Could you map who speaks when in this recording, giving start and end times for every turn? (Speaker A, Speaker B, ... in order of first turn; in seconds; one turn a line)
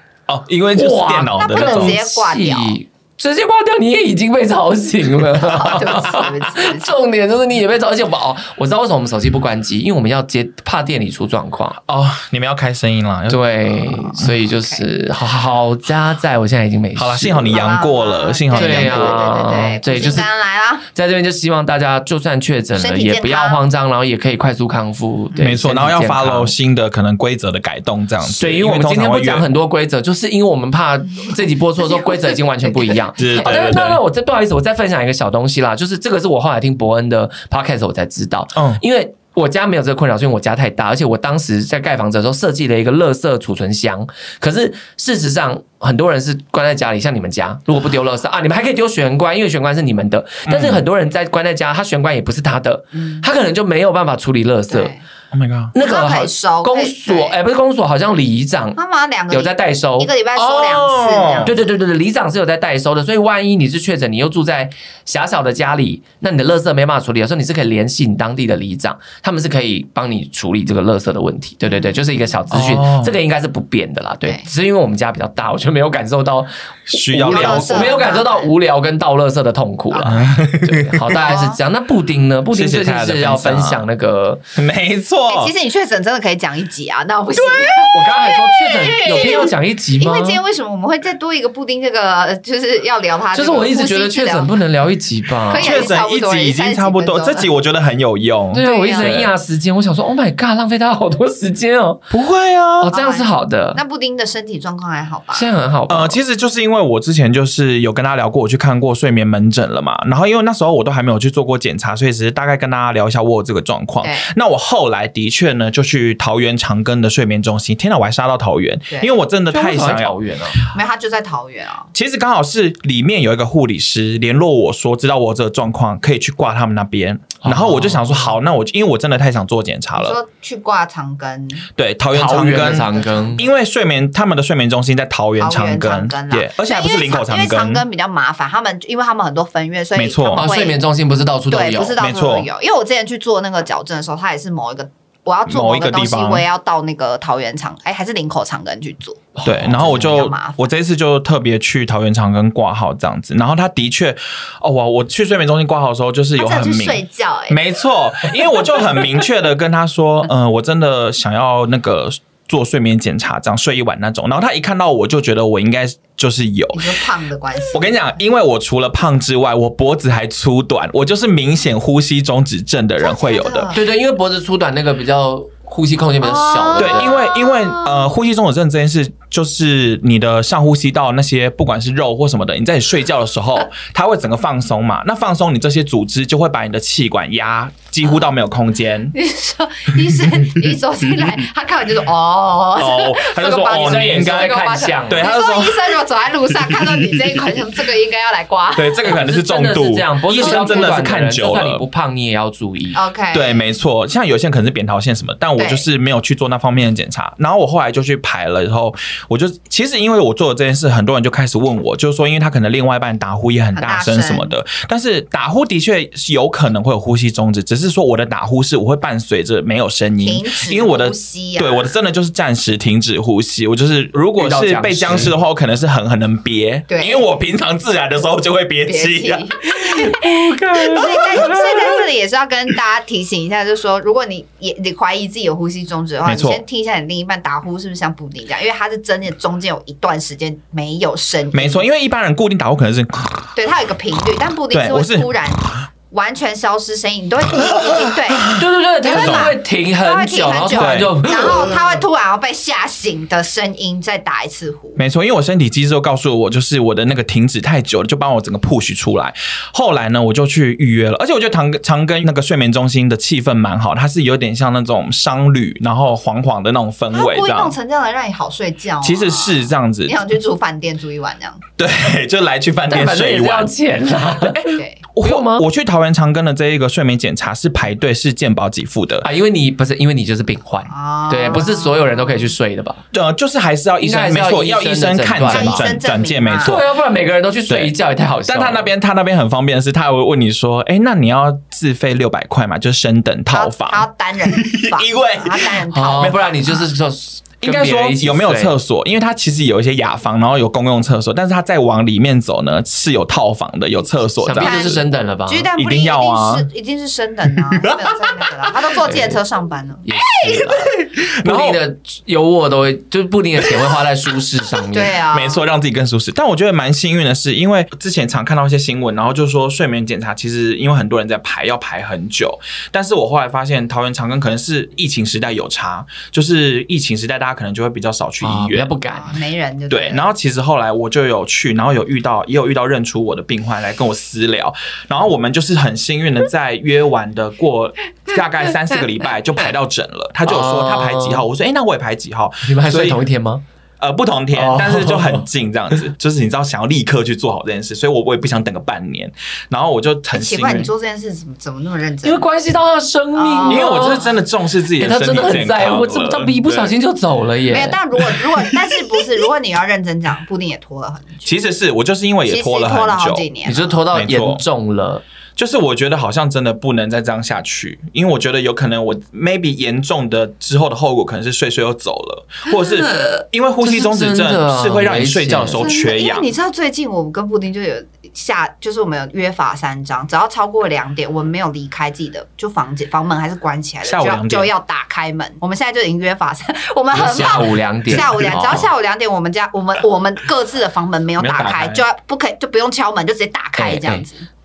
Speaker A: 0.3-2.0
Speaker B: 0.7-11.8
Speaker C: 1.4-2.8
Speaker C: 5.4-6.9
Speaker A: 11.9-14.3
Speaker B: 13.3-17.7
Speaker C: 14.4-14.8
Speaker A: 16.9-19.4
Speaker C: 17.5-20.9
Speaker B: 18.5-20.3
Speaker B: 20.9-26.5
Speaker C: 22.8-23.6
Speaker A: 25.4-29.5
Speaker B: 28.2-54.9
Speaker C: 31.8-33.0
Speaker A: 33.2-34.0
Speaker A: 38.5-38.8
Speaker A: 50.5-50.8
Speaker C: 53.0-53.2
Speaker C: 54.7-55.0
Speaker A: 55.3-55.7
Speaker B: 55.7-58.8
Speaker C: 55.8-57.4
Speaker C: 58.8-61.6
Speaker B: 59.3-60.1
Speaker A: 60.3-61.5
Speaker B: 61.4-84.4
Speaker C: 71.7-72.0
Speaker A: 72.5-73.1
Speaker C: 74.2-74.5
Speaker A: 76.9-78.0
Speaker C: 77.3-78.5
Speaker A: 80.0-81.4
Speaker C: 81.1-81.6
Speaker A: 82.5-83.8
Speaker A: 84.5-85.5
Speaker C: 85.3-94.5
Speaker B: 87.9-90.4
Speaker B: 93.3-95.9
Speaker C: 95.5-97.5
Speaker A: 95.6-99.3
Speaker B: 98.5-102.1
Speaker C: 98.6-99.1
Speaker A: 102.1-102.9
Speaker B: 102.8-103.8
Speaker C: 102.9-105.5
Speaker B: 105.3-106.2
Speaker A: 105.9-120.2
Speaker C: 114.0-114.3
Speaker C: 118.9-119.2
Speaker B: 119.5-120.6
Speaker C: 120.7-121.9
Speaker A: 121.9-130.2
Speaker B: 127.4-128.3
Speaker C: 129.9-131.7
Speaker A: 131.8-137.8
Speaker B: 132.1-133.4
Speaker C: 132.6-133.3
Speaker C: 135.4-140.8
Speaker A: 139.9-140.5
Speaker B: 140.4-141.9
Speaker C: 141.5-150.7
Speaker A: 142.0-142.5
Speaker A: 145.5-146.4
Speaker B: 149.4-150.2
Speaker A: 149.4-167.0
Speaker C: 156.4-157.6
Speaker C: 166.7-167.9
Speaker A: 167.7-173.7
Speaker C: 173.0-173.8
Speaker B: 173.7-177.2
Speaker C: 176.2-178.1
Speaker A: 176.8-189.1
Speaker C: 189.1-199.2
Speaker A: 190.3-191.3
Speaker A: 192.8-196.0
Speaker B: 193.7-195.3
Speaker A: 196.5-197.6
Speaker A: 198.7-201.8
Speaker B: 199.0-203.0
Speaker C: 200.4-201.0
Speaker C: 202.9-203.7
Speaker A: 203.3-232.0
Speaker C: 205.6-205.9
Speaker C: 213.7-214.5
Speaker C: 220.2-221.9
Speaker B: 224.4-225.3
Speaker C: 226.9-227.2
Speaker C: 228.9-230.2
Speaker C: 230.8-241.9
Speaker A: 236.2-236.6
Speaker A: 241.5-243.5
Speaker C: 243.6-255.0
Speaker A: 244.7-245.3
Speaker A: 247.7-248.5
Speaker B: 248.5-251.8
Speaker A: 249.1-249.6
Speaker A: 250.8-251.7
Speaker A: 254.9-267.7
Speaker C: 267.1-271.6
Speaker A: 269.0-270.2
Speaker A: 271.8-273.7
Speaker B: 272.9-275.6
Speaker A: 274.4-279.3
Speaker C: 274.7-275.0
Speaker B: 279.2-283.0
Speaker C: 280.9-282.5
Speaker A: 283.1-286.8
Speaker B: 284.0-285.9
Speaker C: 285.4-286.8
Speaker B: 286.6-288.9
Speaker A: 287.7-287.9
Speaker A: 288.4-296.5
Speaker C: 293.5-296.8
Speaker B: 295.9-298.8
Speaker A: 297.6-305.0
Speaker B: 304.4-305.7
Speaker C: 304.6-310.1
Speaker A: 305.7-306.7
Speaker A: 307.7-309.2
Speaker B: 309.1-309.4
Speaker B: 310.1-315.1
Speaker A: 310.3-311.8
Speaker C: 314.9-315.6
Speaker A: 315.3-328.9
Speaker B: 328.4-329.4
Speaker C: 329.1-330.3
Speaker A: 329.9-343.2
Speaker B: 340.4-341.5
Speaker B: 342.6-343.6
Speaker A: 344.0-350.9
Speaker B: 344.5-345.4
Speaker C: 350.3-352.4
Speaker B: 352.2-354.4
Speaker C: 353.4-354.3
Speaker A: 353.6-356.9
Speaker B: 354.9-358.7
Speaker C: 357.7-361.5
Speaker A: 361.4-363.4
Speaker C: 362.5-364.0
Speaker B: 363.6-365.2
Speaker A: 364.1-364.6
Speaker A: 365.6-376.5
Speaker C: 372.7-373.4
Speaker B: 373.8-375.8
Speaker C: 375.7-394.4
Speaker A: 384.1-384.7
Speaker B: 387.1-388.9
Speaker A: 388.1-388.8
Speaker A: 391.4-392.0
Speaker B: 393.8-394.2